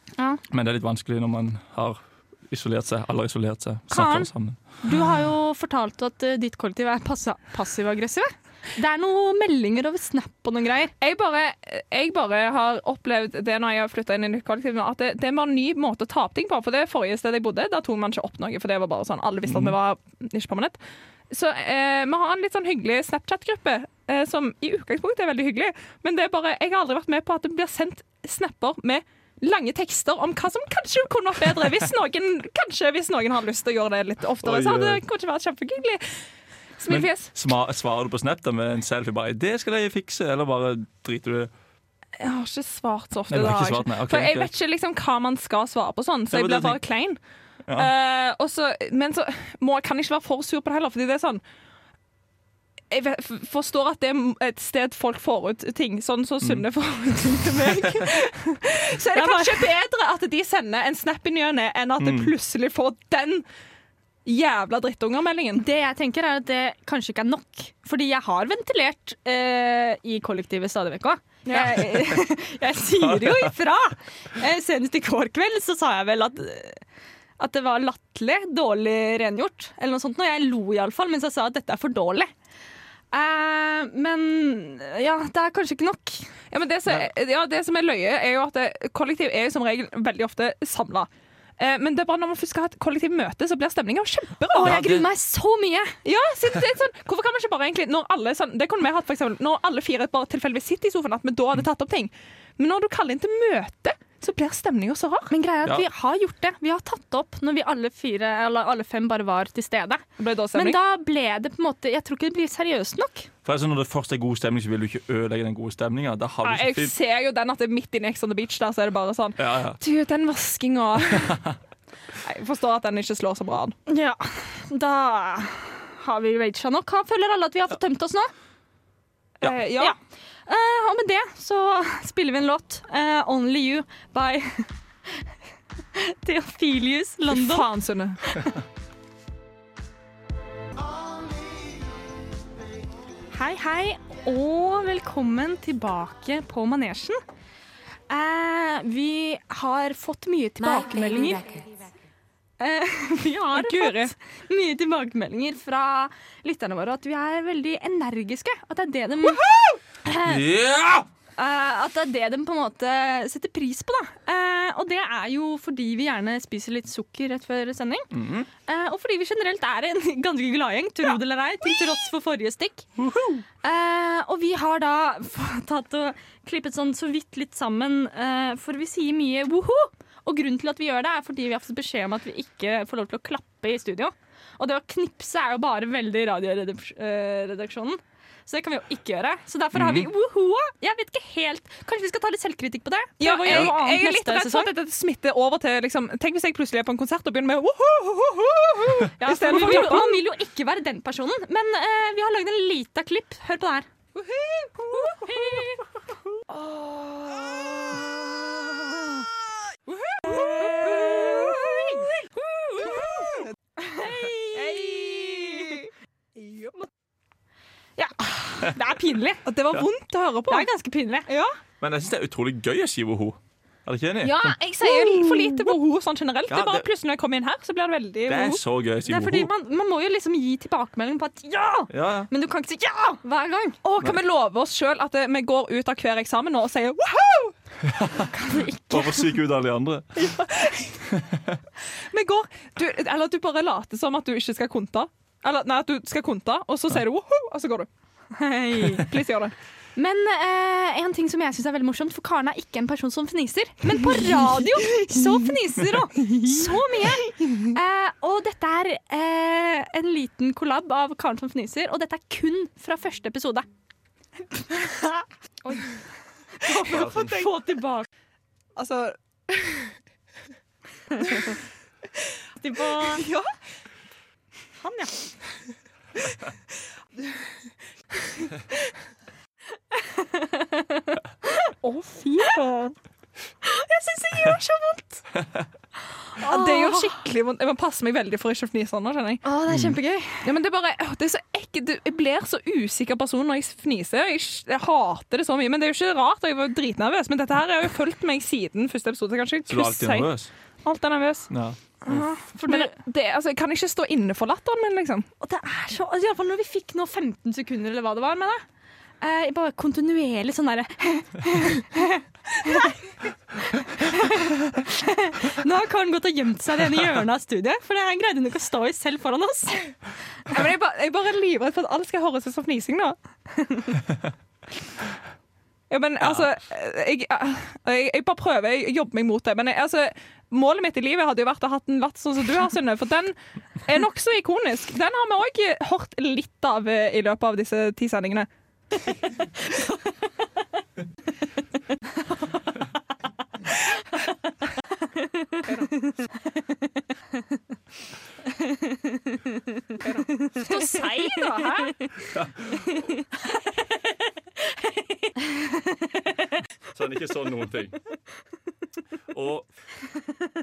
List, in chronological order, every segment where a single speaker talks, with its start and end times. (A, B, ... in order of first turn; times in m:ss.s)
0:00.2-0:00.4 A
0:00.5-0:04.6 B
0:03.9-0:04.3 A
0:04.8-0:10.9 A
0:11.0-0:20.8 C
0:19.5-0:19.8 B
0:21.3-0:36.2 C
0:34.4-0:35.0 B
0:36.8-0:37.3 C
0:36.9-0:41.5 B
0:42.2-0:47.2 C
0:43.3-0:44.5 B
0:46.3-0:46.8 B
0:47.8-0:51.4 C
0:52.9-1:03.4 C
0:59.1-0:59.7 A
1:02.0-1:02.3 B
1:04.3-1:05.6 C
1:05.6-1:16.8 A
1:11.5-1:11.9 C
1:13.0-1:13.5 B
1:17.4-1:22.3 A
1:23.1-1:26.3 A
1:26.5-1:31.1 C
1:31.6-1:34.8 C
1:34.5-1:36.0 A
1:34.6-1:35.1 B
1:36.0-1:45.3 C
1:45.3-1:53.3 A
1:50.2-1:50.8 C
1:53.4-1:56.9 B
1:56.4-2:01.4 C
1:59.4-1:59.8 B
2:01.2-2:01.6 B
2:02.2-2:03.8 C
2:03.9-2:08.3 A
2:09.4-2:09.9 C
2:09.8-2:15.3 A
2:16.0-2:17.7 A
2:17.3-2:18.2 C
2:23.3-2:27.2 A
2:28.1-2:31.7 A
2:32.6-2:39.4 A
2:33.6-2:34.1 C
2:39.2-2:39.8 C
2:40.0-2:40.4 A
2:40.1-2:41.1 B
2:41.4-2:48.1 A
2:48.1-2:48.5 B
2:48.7-2:52.9 A
2:53.0-2:53.4 B
2:53.6-3:14.7 A
3:09.8-3:10.1 B
3:13.2-3:20.2 C
3:13.5-3:13.7 B
3:19.2-3:23.9 A
3:24.2-3:25.6 C
3:24.9-3:25.8 A
3:26.5-3:28.1 C
3:29.9-3:33.5 C
3:30.2-3:32.1 A
3:33.9-3:35.8 A
3:34.0-3:35.9 C
3:36.4-3:36.8 C
3:38.0-3:39.4 A
3:39.4-3:40.7 C
3:40.5-3:41.3 A
3:41.3-3:41.6 C
3:41.8-3:44.6 B
3:44.2-3:48.6 C
3:44.8-3:45.8 A
3:46.5-3:46.8 B
3:48.3-3:49.5 B
3:49.1-3:54.0 A
3:51.9-3:52.3 B
3:53.8-3:57.6 C
3:57.9-3:58.3 B
3:58.3-3:59.3 A
3:58.9-4:00.1 B
4:00.2-4:00.8 A
4:01.1-4:01.5 B
4:02.1-4:07.9 C
4:08.3-4:09.0 A
4:09.0-4:09.6 C
4:10.0-4:23.7 A
4:14.0-4:15.2 C
4:16.2-4:17.6 C
4:24.7-4:25.9 A
4:26.6-4:28.1 A
4:26.9-4:27.3 C
4:28.8-4:29.9 C
4:31.2-4:31.5 C
4:32.6-4:33.3 A
4:33.0-4:33.5 C
4:34.8-4:35.4 A
4:40.0-4:41.7 A
4:41.8-4:43.0 C
4:43.6-4:45.2 A
4:46.4-4:47.2 A
4:46.4-4:49.4 C
4:49.4-4:50.5 A
4:49.7-4:50.0 B
4:50.4-5:00.3 C
4:59.7-5:00.5 B
5:00.8-5:01.5 C
5:01.5-5:02.3 B
5:02.1-5:03.0 A
5:02.1-5:05.3 C
5:05.4-5:08.6 A
5:09.2-5:13.0 A
5:13.6-5:19.9 A
5:20.5-5:23.2 C
5:23.6-5:23.9 A
5:25.9-5:38.5 C
5:45.2-5:45.7 A
5:50.0-5:52.0 C
5:50.4-5:51.9 A
5:52.2-5:53.0 B
5:55.4-5:55.8 A
5:56.9-5:58.0 B
5:59.3-5:59.7 B